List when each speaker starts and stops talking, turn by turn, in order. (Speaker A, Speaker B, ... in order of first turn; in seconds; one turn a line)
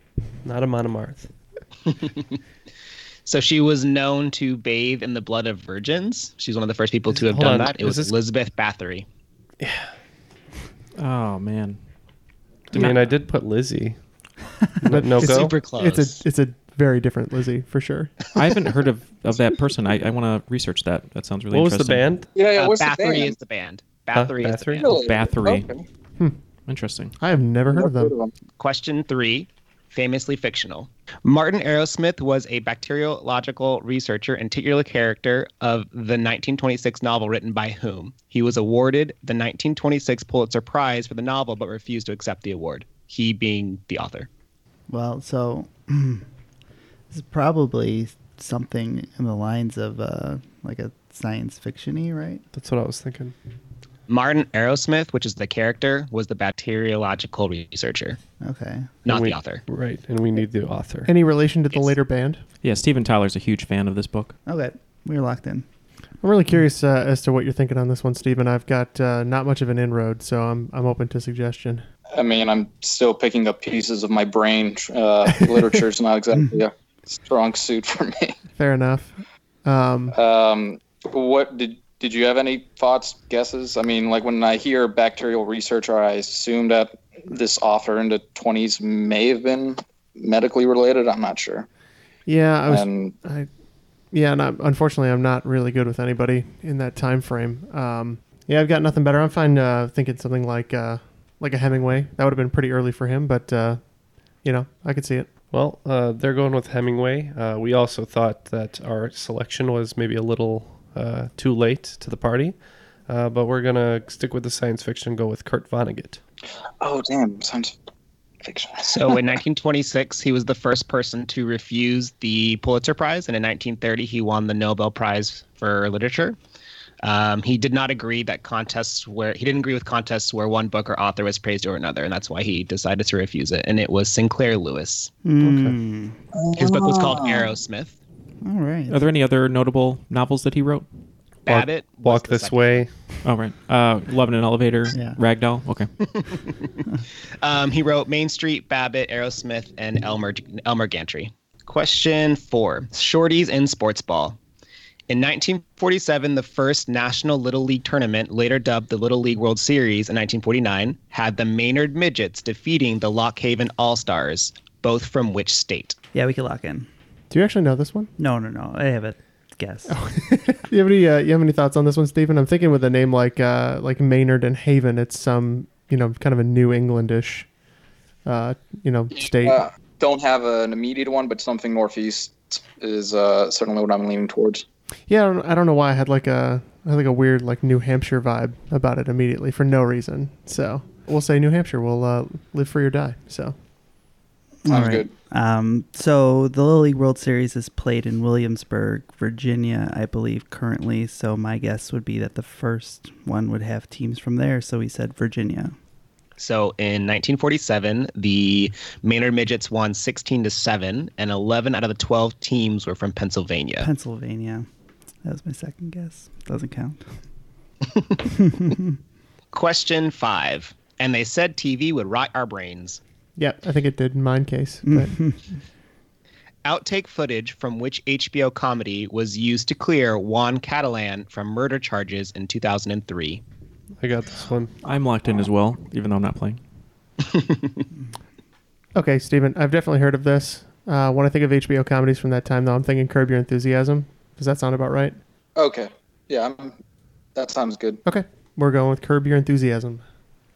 Speaker A: 0.4-1.3
Speaker B: 3.2-9.1
Speaker A: 7.1-8.1
Speaker A: 9.6-9.9
Speaker C: 11.0-11.8
Speaker A: 12.7-14.0
Speaker C: 12.7-13.1
Speaker A: 14.8-15.6
Speaker D: 14.9-18.1
Speaker B: 15.1-16.2
Speaker C: 18.3-22.1
Speaker A: 21.5-22.3
Speaker E: 22.3-23.3
Speaker B: 22.5-24.9
Speaker A: 24.1-24.9
Speaker E: 24.8-25.8
Speaker C: 24.9-25.7
Speaker C: 26.7-27.1
Speaker D: 27.2-28.1
Speaker E: 27.7-28.3
Speaker B: 28.6-44.3
Speaker F: 44.9-46.2
Speaker F: 47.1-52.4
Speaker A: 52.5-53.3
Speaker B: 54.1-58.2
Speaker F: 58.4-58.9
Speaker B: 59.0-59.6
Speaker A: 59.1-61.1
Speaker D: 61.0-62.4
Speaker C: 62.6-64.3
Speaker F: 64.5-65.7
Speaker D: 66.2-71.8
Speaker E: 72.1-78.3
Speaker D: 78.5-80.2
Speaker E: 80.1-91.7
Speaker D: 92.2-93.5
Speaker E: 92.7-93.1
Speaker D: 94.1-103.8
Speaker D: 104.4-105.3
Speaker A: 105.5-116.2
Speaker E: 116.8-117.7
Speaker E: 118.4-119.2
Speaker B: 118.8-126.4
Speaker B: 127.0-135.1
Speaker F: 135.2-136.2
Speaker A: 135.4-135.8
Speaker E: 136.3-137.5
Speaker B: 136.5-137.9
Speaker F: 138.4-139.0
Speaker C: 138.9-140.9
Speaker B: 141.4-142.8
Speaker A: 141.5-142.9
Speaker C: 143.2-145.9
Speaker B: 147.4-154.4
Speaker B: 155.1-166.0
Speaker F: 166.1-166.9
Speaker D: 167.3-168.1
Speaker F: 168.2-170.0
Speaker D: 169.9-177.5
Speaker D: 178.2-179.6
Speaker E: 179.2-184.6
Speaker D: 185.1-193.5
Speaker F: 194.6-205.8
Speaker E: 194.7-195.1
Speaker B: 206.4-213.9
Speaker F: 213.8-214.7
Speaker F: 215.2-217.1
Speaker F: 218.5-218.8
Speaker B: 219.5-223.0
Speaker D: 223.3-225.2
Speaker F: 224.8-225.4
Speaker B: 226.6-233.4
Speaker A: 234.0-234.7
Speaker C: 234.8-236.6
Speaker D: 238.9-245.2
Speaker E: 245.6-246.8
Speaker E: 247.3-248.0
Speaker D: 248.0-250.0